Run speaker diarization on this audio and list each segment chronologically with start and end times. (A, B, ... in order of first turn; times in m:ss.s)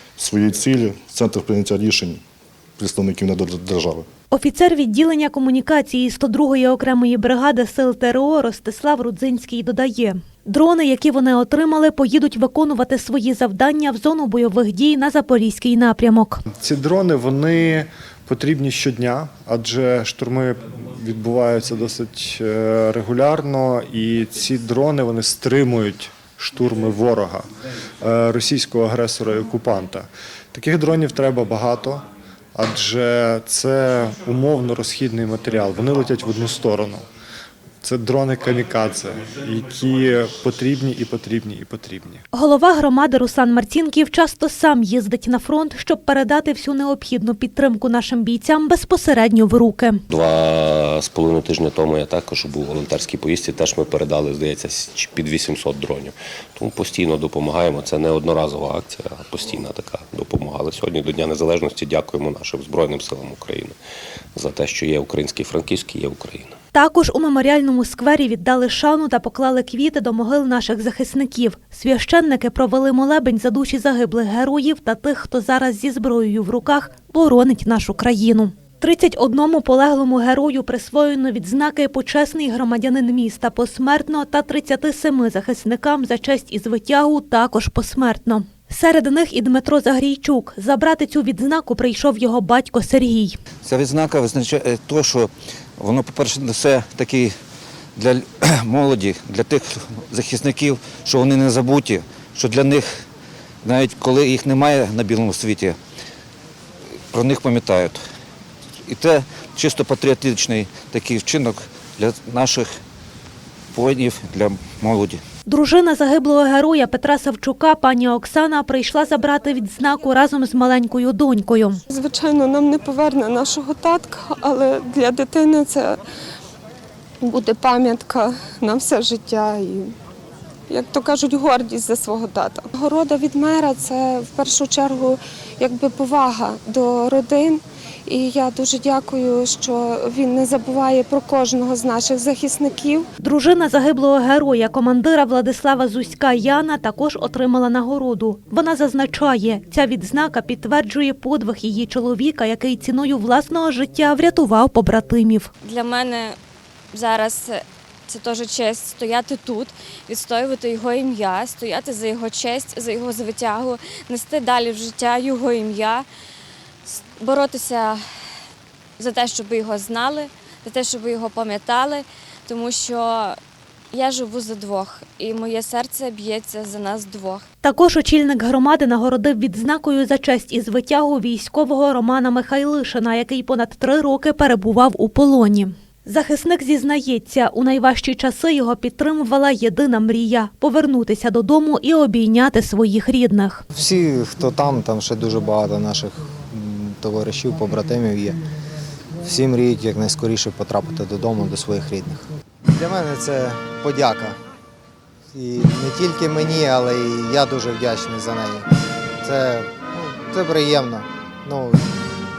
0:00.2-0:02.2 A
0:02.8-0:04.0 A
0:04.3-0:16.4 B
0:16.6-0:27.5 C
0:28.0-0:37.0 C
0:37.8-0:42.2 C
0:42.3-0:50.0 B
0:50.3-1:03.7 D
1:04.4-1:06.5 D
1:06.7-1:33.4 B
1:33.6-1:37.4 E
1:37.9-1:43.0 E
1:43.6-1:45.8 E
1:47.1-1:48.0 E
1:48.8-1:52.7 E
1:53.7-1:55.2 E
1:55.5-2:01.8 B
2:01.9-2:06.0 F
2:07.2-2:09.9 F
2:10.7-2:23.0 F
2:23.2-2:35.5 B
2:35.6-2:36.4 G
2:36.9-2:46.0 G
2:46.8-2:48.0 G
2:49.0-2:53.4 G
2:53.9-2:57.4 G
2:57.6-3:13.6 B
3:13.7-3:18.4 H
3:19.2-3:24.4 H
3:25.3-3:28.7 H
3:29.2-3:31.9 H